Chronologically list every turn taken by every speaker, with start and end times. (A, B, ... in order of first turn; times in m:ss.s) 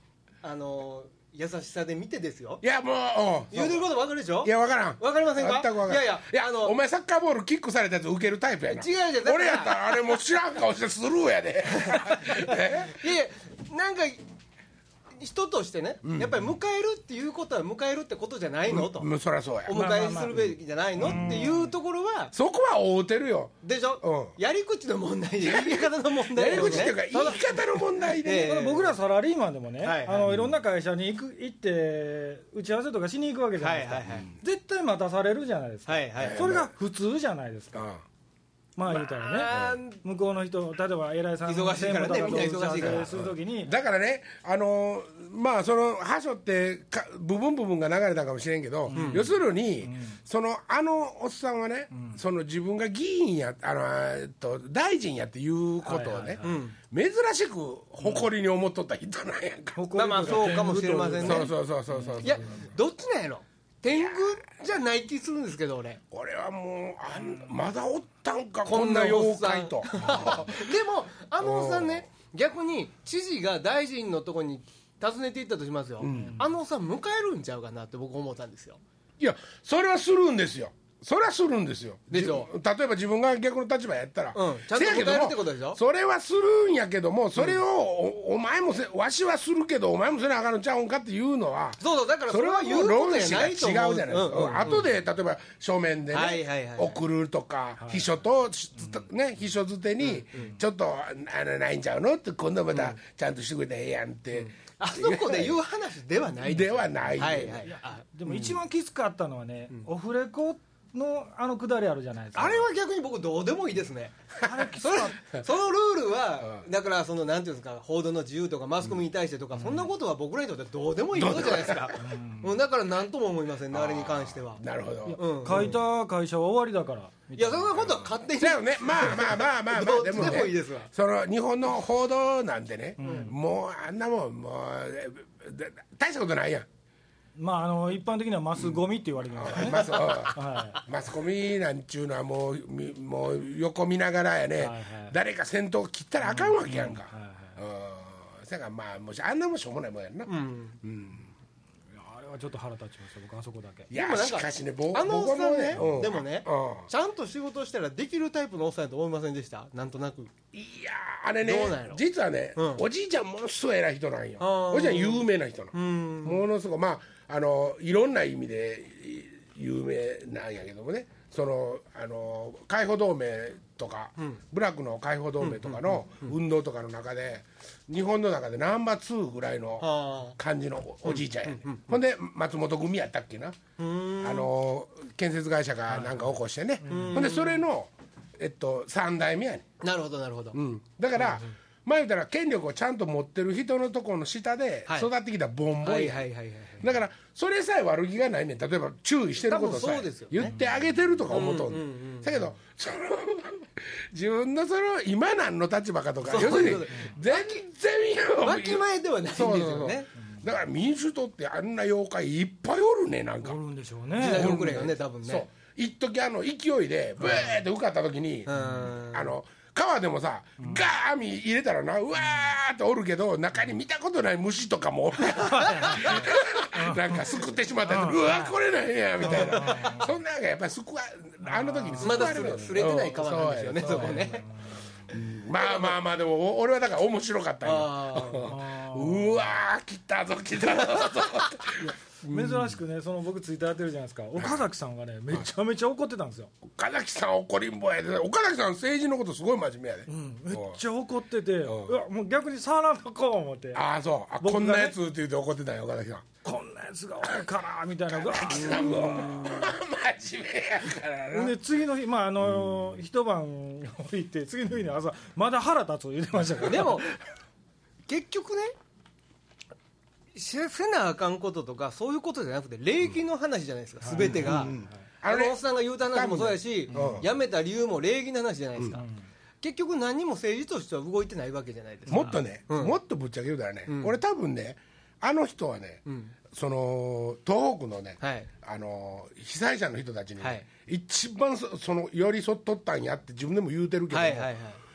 0:00.4-0:02.6 A
0:02.6-0:03.8 B
0:03.5-0:06.7 A
0:04.4-0:13.1 B
0:08.7-0:10.2 A
0:11.8-0:14.2 A
0:15.2-0:19.1 A
0:16.0-0:16.5 B
0:18.7-0:19.8 B
0:19.6-0:22.3 A
0:19.7-0:20.4 C
0:21.0-0:21.7 C
0:21.0-0:21.4 B
0:22.3-0:24.3 B
0:23.6-0:28.9 A
0:25.4-0:28.5 B
0:26.6-0:26.9 C
0:28.2-0:37.8 C
0:29.8-0:30.4 A
0:33.6-0:34.3 A
0:35.9-0:36.4 A
0:36.2-0:36.7 B
0:37.7-0:38.0 B
0:38.8-0:39.5 C
0:38.9-0:40.0 A
0:39.4-0:39.8 B
0:40.0-0:43.7 C
0:41.4-0:43.2 A
0:42.8-1:00.5 B
0:48.9-0:50.2 C
0:48.9-0:49.2 A
0:51.9-0:52.2 C
0:55.8-0:56.6 C
0:56.4-0:56.8 A
0:59.7-1:02.6 C
0:59.9-1:01.5 A
1:01.2-1:02.6 B
1:02.2-1:06.0 A
1:03.9-1:04.3 B
1:06.1-1:10.7 B
1:08.6-1:18.8 A
1:11.4-1:12.0 B
1:16.0-1:16.4 B
1:16.1-1:16.4 C
1:19.2-1:45.6 B
1:22.1-1:22.5 A
1:24.3-1:25.8 A
1:31.8-1:34.9 A
1:36.1-1:37.0 A
1:37.8-1:38.2 C
1:40.0-1:40.5 A
1:42.7-1:43.0 A
1:44.3-1:48.4 A
1:46.4-1:47.6 B
1:47.7-1:52.7 C
1:52.3-1:54.1 A
1:54.4-1:55.2 C
1:54.8-2:04.6 A
1:59.6-1:59.9 C
2:01.1-2:02.0 B
2:02.0-2:02.6 C
2:03.7-2:05.8 B
2:05.0-2:08.0 C
2:05.2-2:05.8 A
2:07.4-2:10.9 A
2:08.4-2:16.7 B
2:13.0-2:13.4 C
2:13.0-2:13.3 A
2:17.4-2:20.8 C
2:19.3-2:31.3 B
2:19.6-2:20.3 A
2:24.6-2:25.1 C
2:26.3-2:27.6 C
2:30.3-2:30.8 A
2:31.9-2:33.9 C
2:33.9-2:36.9 B
2:33.9-2:40.3 A
2:40.5-3:03.6 B
2:41.4-2:42.0 A
2:42.6-2:42.8 A
2:44.4-2:46.4 A
2:55.4-2:56.3 A
2:59.8-3:00.4 A
3:01.0-3:01.8 A
3:03.8-3:04.5 A
3:04.2-3:09.7 B
3:05.9-3:06.2 C
3:06.8-3:07.3 C
3:06.9-3:07.6 A
3:09.8-3:10.6 A
3:10.5-3:16.2 B
3:11.2-3:11.5 A
3:15.8-3:16.8 A
3:16.8-3:33.6 B
3:19.5-3:20.5 A
3:21.3-3:22.4 A
3:26.2-3:27.4 A
3:28.4-3:30.1 A
3:33.4-3:34.5 C
3:34.2-3:35.4 A
3:34.2-3:54.4 B
3:38.5-3:39.3 A
3:38.6-3:38.8 C
3:40.6-3:40.9 C
3:45.4-3:47.1 C
3:47.9-3:48.2 C
3:49.2-3:50.1 C
3:49.2-3:50.0 A
3:51.4-3:52.7 C
3:52.0-3:54.4 A
3:53.8-3:55.0 C
3:55.1-4:02.8 B
3:55.6-3:55.9 A
3:57.6-3:58.5 A
3:58.5-3:59.4 C
4:00.6-4:01.1 A
4:01.8-4:06.5 C
4:04.4-4:04.6 B
4:06.6-4:10.8 B
4:10.1-4:13.8 C
4:11.6-4:12.0 B
4:13.7-4:16.3 B
4:14.4-4:15.0 C
4:16.4-4:19.5 C
4:18.1-4:21.6 B
4:18.6-4:19.7 A
4:21.3-4:27.2 C
4:26.6-4:27.1 A
4:28.1-4:28.7 A
4:30.3-4:39.0 A
4:34.0-4:34.9 C
4:34.2-4:35.6 B
4:36.1-4:37.3 B
4:36.9-4:37.2 C
4:39.0-4:39.2 C
4:39.6-4:43.0 A
4:42.1-4:54.5 B
4:42.1-4:42.4 C
4:43.9-4:44.2 A
4:46.1-4:46.3 A
4:48.2-4:48.5 A
4:50.4-4:50.6 A
4:54.1-4:54.8 A